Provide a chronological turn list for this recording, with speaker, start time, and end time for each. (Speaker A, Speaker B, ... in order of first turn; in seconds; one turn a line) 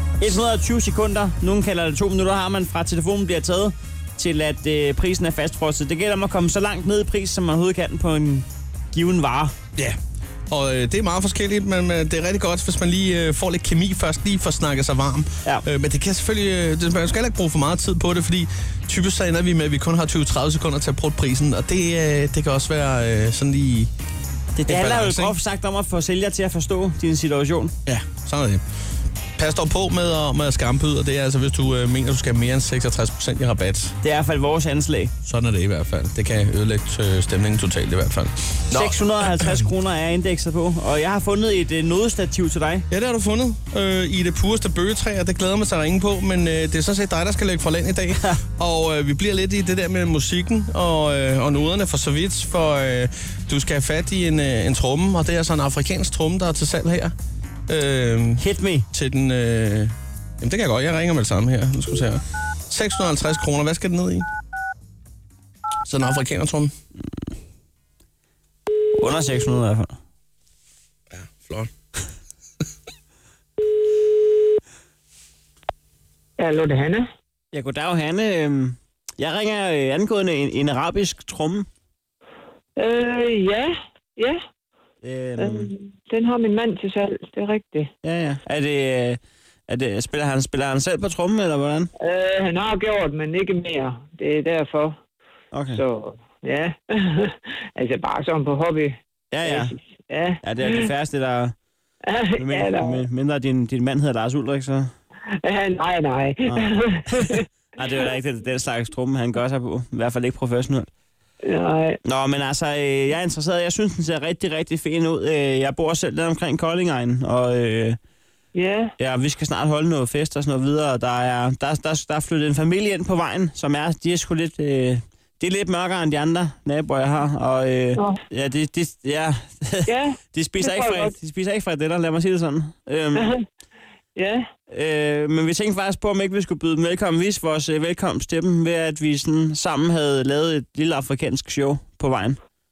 Speaker A: 0.2-9.6
Speaker B: 10.5-23.9
Speaker A: 24.6-27.8
Speaker B: 24.7-25.4
Speaker B: 27.9-28.6
Speaker B: 29.4-34.0
Speaker A: 34.0-35.1
Speaker B: 35.2-39.6
Speaker A: 38.7-42.9
Speaker B: 42.9-57.1
Speaker B: 57.7-64.3
Speaker A: 58.4-58.9
Speaker B: 65.9-66.7
Speaker A: 69.0-70.0
Speaker B: 71.1-71.7
Speaker C: 76.4-77.1
Speaker A: 77.5-81.7
Speaker C: 82.8-84.4
Speaker A: 85.0-85.7
Speaker C: 85.4-87.9
Speaker A: 88.0-91.9
Speaker C: 92.0-95.0
Speaker A: 95.5-95.8
Speaker C: 95.7-100.9
Speaker A: 99.3-99.7
Speaker A: 100.4-101.5
Speaker C: 102.0-103.0
Speaker A: 102.4-104.9
Speaker C: 105.4-107.5
Speaker A: 106.5-110.9
Speaker C: 111.4-112.0
Speaker A: 112.0-118.0
Speaker C: 118.5-118.9
Speaker A: 119.0-133.3
Speaker C: 129.9-131.1
Speaker C: 133.2-133.4
Speaker C: 134.2-134.5
Speaker A: 134.7-142.4